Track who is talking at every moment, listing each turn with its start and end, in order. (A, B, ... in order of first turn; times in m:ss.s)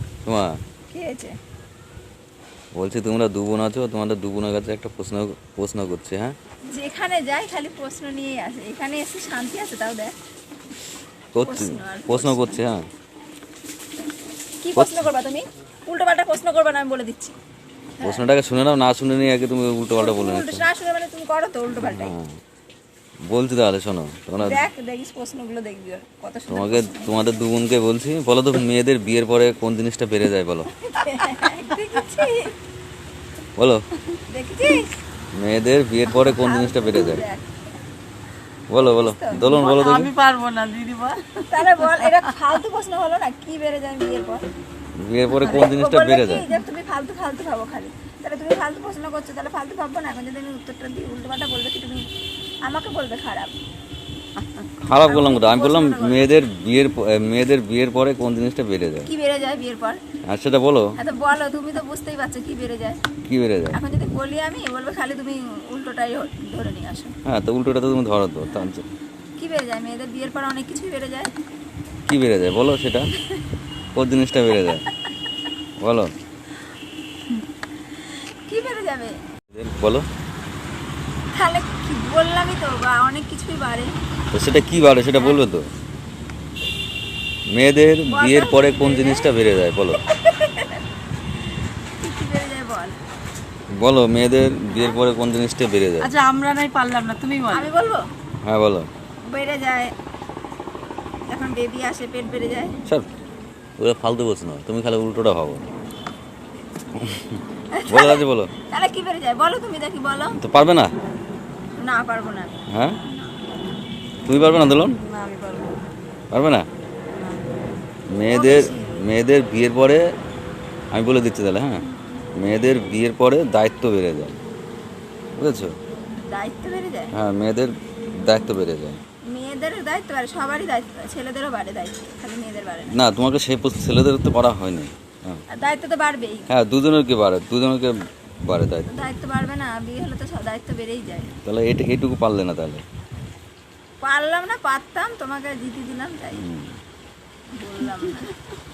0:00.2-0:00.6 A
0:00.9-0:01.3 B
0:02.7-0:06.3 A
0:06.7-0:10.1 B
0:11.3-0:12.8 A
0:11.4-0:12.6 B
0:14.6-0:17.4 B
0:18.0-0:18.2 B
0:18.0-0:20.6 A
0:19.9-0:22.1 B
0:21.8-0:22.3 A
0:23.3-0:24.7 A
0:24.4-0:27.1 B
0:26.5-0:30.7 A
0:30.8-0:32.5 B
0:33.6-0:33.8 A
0:34.1-0:34.9 B
0:35.3-0:37.2 A
0:36.1-0:37.5 B
0:38.7-0:40.1 A
0:38.8-0:39.6 B
0:39.4-0:42.3 C
0:41.4-0:44.4 B
0:45.0-0:46.5 A
0:45.3-0:52.1 B
0:52.6-0:53.6 B
0:54.8-0:59.1 A
0:54.9-0:56.4 B
0:59.1-1:00.0 B
1:00.3-1:00.9 A
1:01.0-1:03.0 B
1:03.3-1:03.8 A
1:03.7-1:07.1 B
1:07.2-1:08.9 A
1:09.4-1:11.3 B
1:12.0-1:13.1 A
1:13.9-1:14.8 A
1:15.8-1:16.1 A
1:18.5-1:19.2 B
1:19.5-1:20.1 A
1:21.3-1:23.9 B
1:24.3-1:25.7 A
1:27.5-1:30.0 A
1:28.0-1:29.3 B
1:30.1-1:30.8 B
1:32.0-1:33.0 B
1:33.7-1:36.1 A
1:36.0-1:37.6 C
1:37.5-1:38.1 B
1:38.4-1:38.9 A
1:39.3-1:39.9 B
1:41.3-1:42.8 B
1:43.8-1:45.6 A
1:47.0-1:47.3 A
1:47.7-1:50.4 B
1:47.9-1:48.5 A
1:50.3-1:50.9 A
1:51.8-1:53.4 B
1:52.7-1:53.0 A
1:54.2-1:55.0 A
1:54.9-1:55.8 C
1:56.3-1:56.6 A
1:57.1-1:57.5 C
1:58.1-2:00.0 A
1:58.3-1:59.0 B
2:00.9-2:01.8 A
2:01.8-2:02.2 B
2:02.4-2:04.4 A
2:05.4-2:05.8 A
2:06.3-2:07.1 B
2:07.1-2:09.0 A
2:09.3-2:12.9 B
2:12.9-2:15.4 A
2:15.5-2:16.5 B
2:16.5-2:17.9 A
2:18.4-2:18.9 A
2:18.9-2:21.3 B
2:21.4-2:22.8 A
2:24.0-2:26.5 B
2:26.3-2:26.7 A
2:27.5-2:28.4 B